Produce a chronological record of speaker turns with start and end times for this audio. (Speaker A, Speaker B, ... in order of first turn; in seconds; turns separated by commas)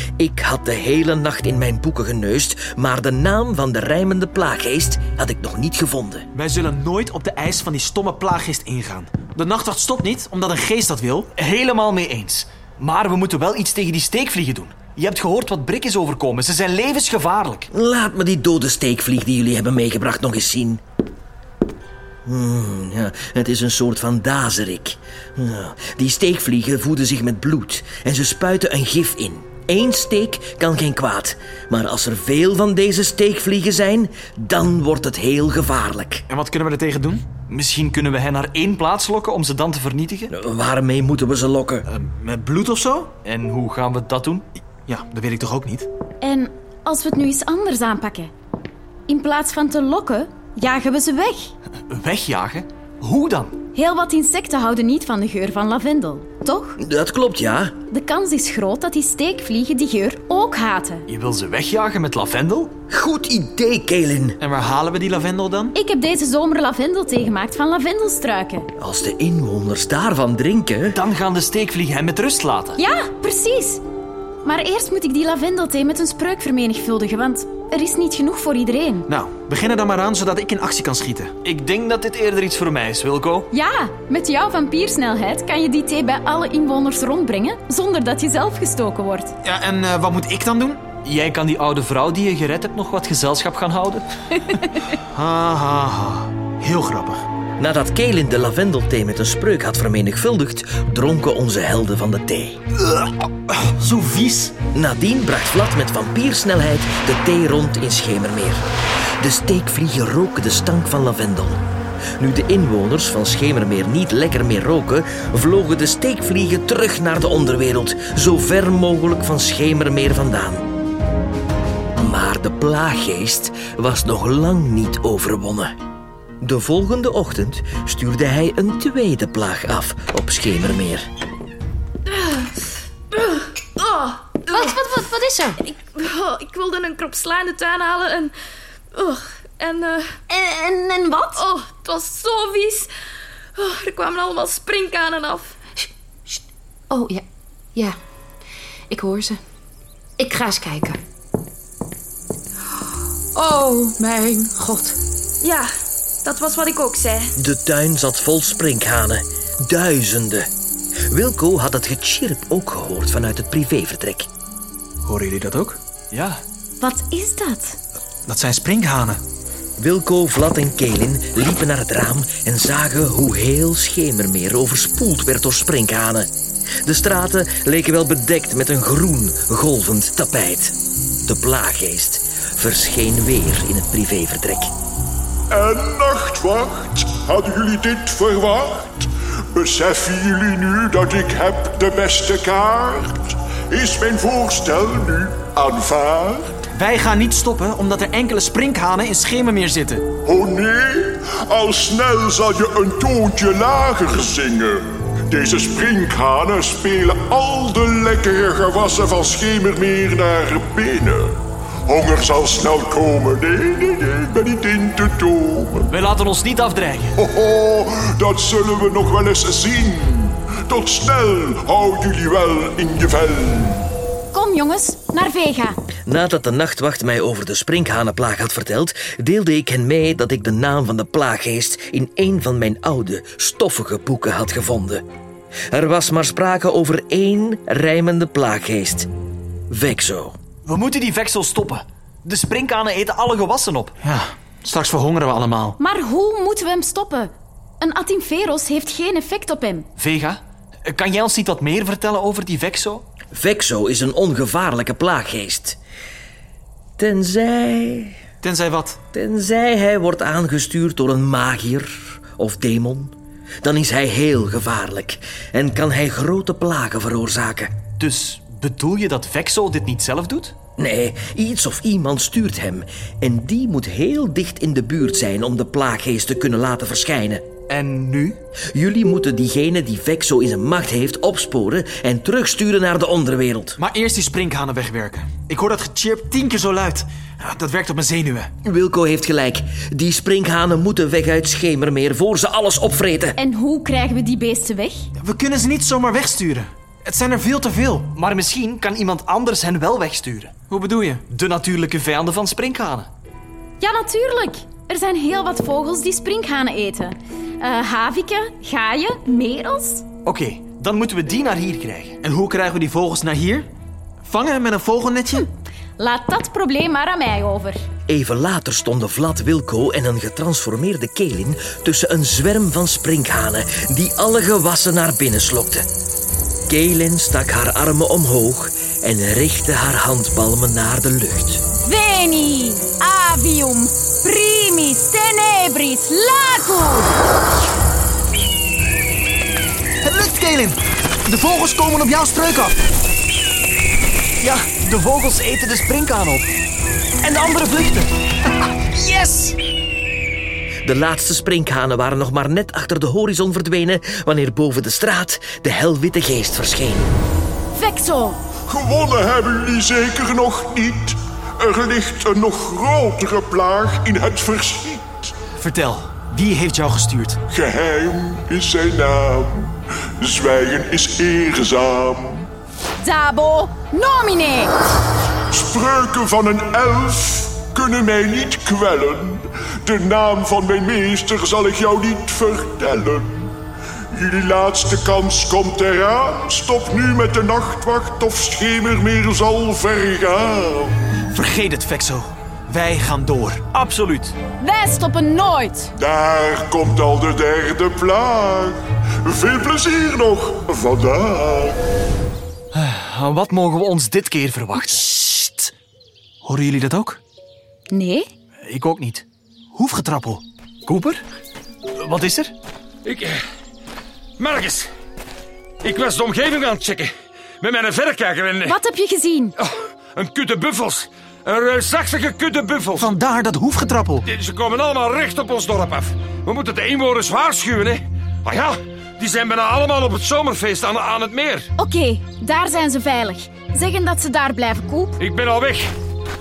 Speaker A: 0.2-6.2, Speaker B: 6.3-11.3, Speaker C: 11.3-17.7, Speaker A: 17.7-20.8, Speaker A: 22.2-36.2, Speaker B: 36.3-37.2, Speaker C: 37.5-40.3, Speaker A: 40.3-41.8, Speaker B: 41.9-43.1, Speaker C: 43.2-44.4, Speaker B: 44.9-45.9, Speaker D: 46.2-48.3, Speaker D: 49.1-51.5, Speaker C: 51.9-53.5, Speaker D: 53.7-56.8, Speaker A: 56.8-57.7, Speaker D: 57.9-61.1, Speaker C: 61.1-62.7, Speaker A: 62.9-64.4, Speaker B: 64.4-65.7, Speaker D: 65.7-68.7, Speaker A: 68.8-71.0, Speaker C: 70.9-72.8, Speaker D: 72.8-73.8, Speaker D: 74.4-79.1, Speaker B: 79.1-81.3, Speaker C: 81.4-83.5, Speaker D: 83.5-89.3, Speaker B: 89.4-90.8, Speaker C: 91.0-94.0, Speaker B: 95.1-97.2, Speaker A: 97.6-102.6, Speaker B: 102.8-104.6, Speaker A: 104.7-108.6, Speaker A: 109.2-111.6, Speaker A: 112.2-120.7, Speaker A: 122.0-125.7, Speaker A: 126.4-131.1, Speaker E: 132.2-132.5, Speaker E: 133.1-134.8, Speaker F: 134.5-135.6, Speaker E: 135.7-138.3, Speaker E: 138.9-140.2, Speaker F: 140.3-141.4, Speaker E: 141.3-142.9, Speaker E: 143.6-145.6, Speaker F: 146.9-148.0, Speaker F: 148.9-149.4, Speaker F: 150.2-151.0, Speaker F: 153.3-155.0, Speaker E: 155.4-155.7, Speaker E: 156.2-157.3, Speaker A: 157.3-160.5, Speaker A: 161.1-164.3, Speaker B: 165.0-165.8, Speaker C: 166.1-166.4, Speaker D: 166.8-167.8, Speaker B: 168.3-169.2, Speaker A: 169.8-176.3, Speaker A: 176.8-184.7, Speaker G: 185.5-196.6, Speaker B: 196.7-200.1, Speaker G: 200.2-215.9, Speaker C: 215.9-217.1, Speaker G: 217.2-223.9, Speaker D: 224.3-225.8, Speaker A: 226.1-235.0, Speaker A: 235.7-239.1, Speaker A: 239.7-240.4, Speaker C: 240.7-243.9, Speaker B: 244.0-245.8, Speaker D: 245.8-249.9, Speaker C: 250.0-253.1, Speaker A: 253.3-255.8, Speaker A: 257.0-258.2, Speaker B: 258.4-259.0, Speaker A: 259.1-267.8, Speaker C: 268.0-270.5, Speaker A: 270.8-277.4, Speaker C: 277.7-278.4, Speaker A: 278.7-283.8, Speaker B: 283.8-288.5, Speaker A: 288.6-293.4, Speaker D: 293.4-295.1, Speaker B: 295.2-298.1, Speaker C: 298.1-300.5, Speaker B: 300.7-301.2, Speaker C: 301.3-303.1, Speaker D: 303.8-310.0, Speaker C: 310.2-312.2, Speaker B: 312.2-313.7, Speaker B: 314.2-315.4, Speaker D: 316.0-317.8, Speaker A: 318.1-325.9, Speaker A: 326.7-331.6, Speaker D: 331.8-337.1, Speaker B: 340.0-342.8, Speaker C: 344.4-346.4, Speaker C: 347.2-348.1, Speaker B: 348.8-349.6, Speaker A: 350.8-357.1, Speaker D: 357.7-358.4, Speaker G: 358.7-365.3, Speaker B: 365.6-367.4, Speaker G: 367.5-372.5, Speaker D: 373.0-374.7, Speaker G: 375.5-383.5, Speaker G: 384.1-391.2, Speaker B: 391.3-393.6, Speaker C: 393.7-394.4, Speaker D: 394.6-395.9, Speaker G: 396.0-401.8, Speaker C: 402.7-405.1, Speaker B: 405.0-405.7, Speaker B: 406.4-407.2, Speaker D: 407.9-408.3, Speaker C: 408.6-409.2, Speaker B: 409.7-410.4, Speaker C: 410.9-411.2, Speaker C: 411.9-412.5, Speaker H: 413.0-413.4, Speaker H: 414.4-414.9, Speaker H: 415.8-418.7, Speaker D: 418.6-419.5, Speaker H: 419.6-423.1, Speaker B: 423.0-424.2, Speaker H: 424.2-431.7, Speaker D: 431.8-435.2, Speaker H: 435.2-435.9